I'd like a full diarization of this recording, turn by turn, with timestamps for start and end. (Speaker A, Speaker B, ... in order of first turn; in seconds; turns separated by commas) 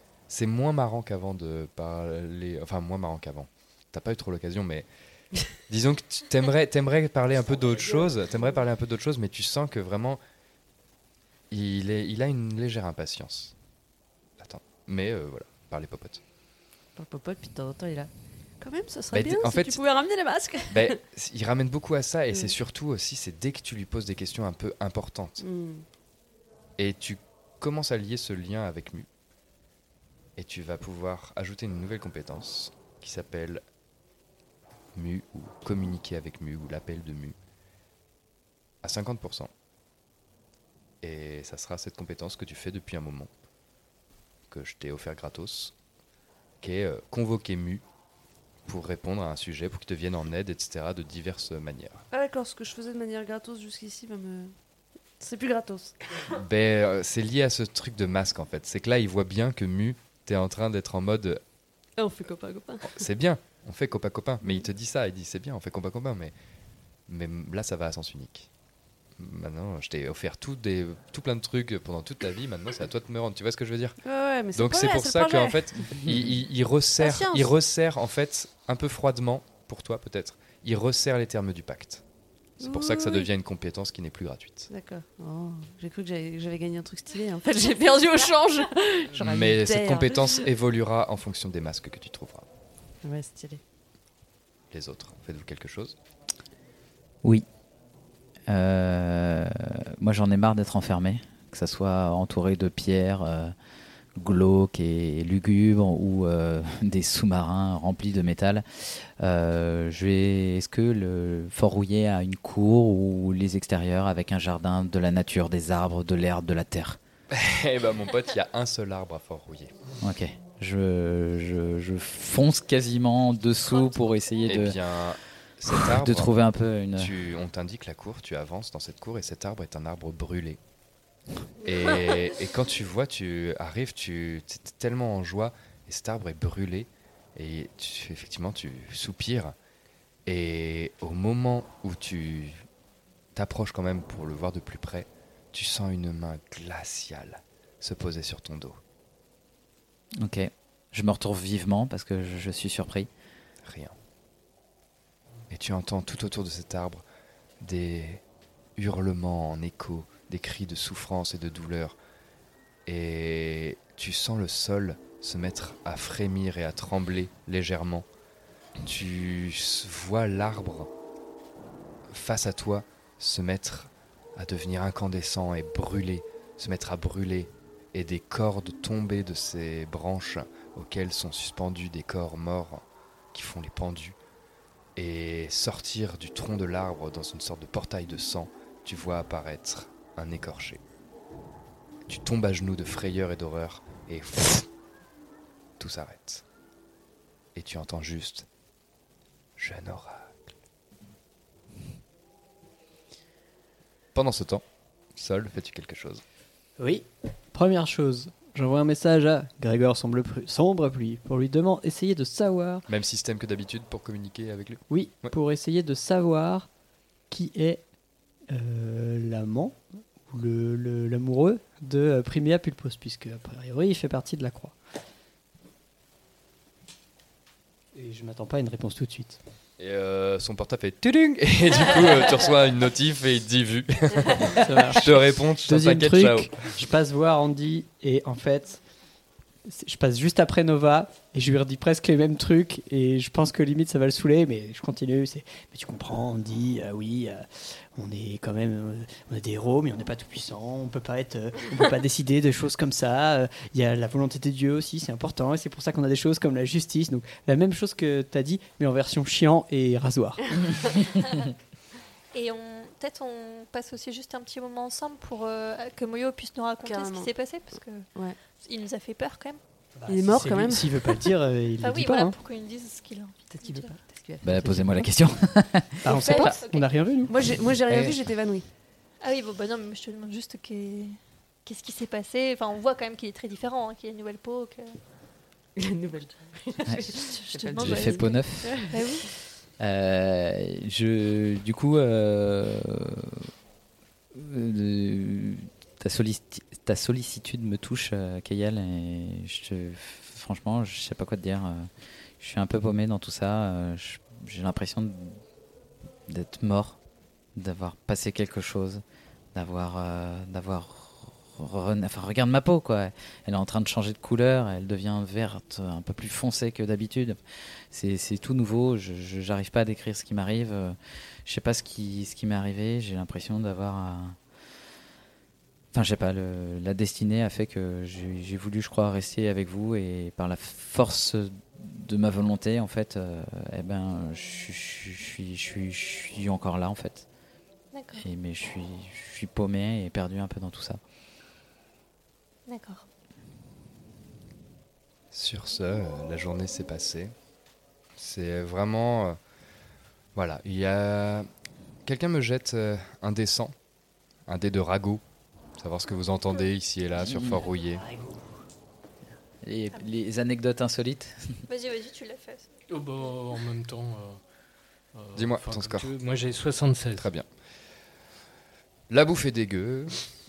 Speaker A: 0.3-4.8, Speaker A: 5.7-10.2, Speaker B: 7.3-8.6, Speaker A: 11.5-13.5, Speaker A: 14.4-16.2, Speaker B: 16.9-21.0, Speaker A: 19.1-19.8, Speaker A: 20.7-25.4, Speaker B: 25.4-25.8, Speaker A: 26.8-29.1, Speaker A: 30.4-33.6, Speaker A: 34.9-37.4, Speaker A: 38.8-39.5, Speaker A: 41.0-43.3, Speaker A: 44.5-45.7, Speaker A: 46.6-47.8, Speaker A: 48.6-52.0, Speaker B: 52.1-54.5, Speaker B: 55.2-55.9, Speaker A: 56.3-61.4, Speaker B: 62.0-63.0, Speaker A: 62.8-66.3, Speaker A: 67.1-68.5, Speaker A: 69.2-74.0, Speaker B: 74.0-76.0, Speaker A: 74.5-82.0, Speaker B: 77.0-77.5, Speaker A: 82.6-84.7, Speaker B: 82.6-83.3, Speaker B: 84.7-90.4, Speaker A: 89.2-92.5, Speaker B: 93.0-93.6, Speaker A: 94.7-96.0, Speaker C: 98.5-103.5, Speaker C: 104.2-117.0, Speaker A: 117.3-119.7, Speaker C: 120.0-124.8, Speaker D: 123.8-124.5, Speaker A: 124.5-126.3, Speaker C: 125.8-127.1, Speaker A: 127.0-130.6, Speaker A: 131.6-139.5, Speaker A: 140.2-142.6, Speaker A: 143.3-148.8, Speaker C: 150.2-153.1, Speaker A: 153.6-153.9, Speaker A: 155.5-157.0, Speaker A: 157.6-158.2, Speaker A: 158.8-161.9, Speaker A: 162.8-168.1, Speaker A: 168.8-170.9, Speaker A: 172.1-184.2, Speaker A: 184.9-190.8, Speaker A: 192.1-194.7, Speaker A: 195.8-196.4, Speaker A: 197.5-198.4, Speaker A: 199.6-200.3, Speaker A: 204.1-204.6, Speaker A: 205.1-206.2, Speaker E: 206.8-212.8, Speaker A: 212.9-215.3, Speaker E: 214.9-216.7, Speaker E: 217.3-217.9, Speaker E: 218.5-224.8, Speaker E: 227.9-229.4, Speaker A: 229.8-236.6, Speaker E: 234.5-238.8, Speaker E: 239.7-261.0, Speaker D: 262.3-269.6, Speaker B: 266.8-267.3, Speaker B: 268.1-268.4, Speaker E: 269.9-272.4, Speaker B: 270.1-271.2, Speaker D: 271.8-273.9, Speaker B: 273.5-275.1, Speaker C: 274.4-276.0, Speaker E: 276.0-277.6, Speaker D: 276.1-277.2, Speaker B: 277.3-278.7, Speaker D: 279.2-285.0, Speaker B: 285.8-289.2, Speaker C: 286.9-287.1, Speaker D: 287.1-289.3, Speaker C: 287.8-288.9, Speaker C: 289.8-293.5, Speaker C: 294.3-305.4, Speaker C: 306.3-307.0, Speaker C: 307.5-309.0, Speaker C: 309.5-317.4, Speaker C: 317.9-324.4, Speaker C: 325.9-337.2, Speaker D: 337.9-338.3, Speaker C: 338.1-341.0, Speaker D: 342.7-343.0, Speaker A: 345.3-347.3, Speaker A: 348.2-349.4, Speaker A: 350.3-351.5, Speaker A: 352.0-353.7, Speaker A: 354.5-355.2, Speaker A: 355.8-358.0, Speaker C: 357.2-357.6, Speaker C: 359.6-361.6, Speaker D: 361.7-362.8, Speaker F: 362.9-364.4, Speaker F: 365.1-367.3, Speaker A: 365.3-366.1, Speaker A: 367.2-367.4, Speaker A: 369.1-370.2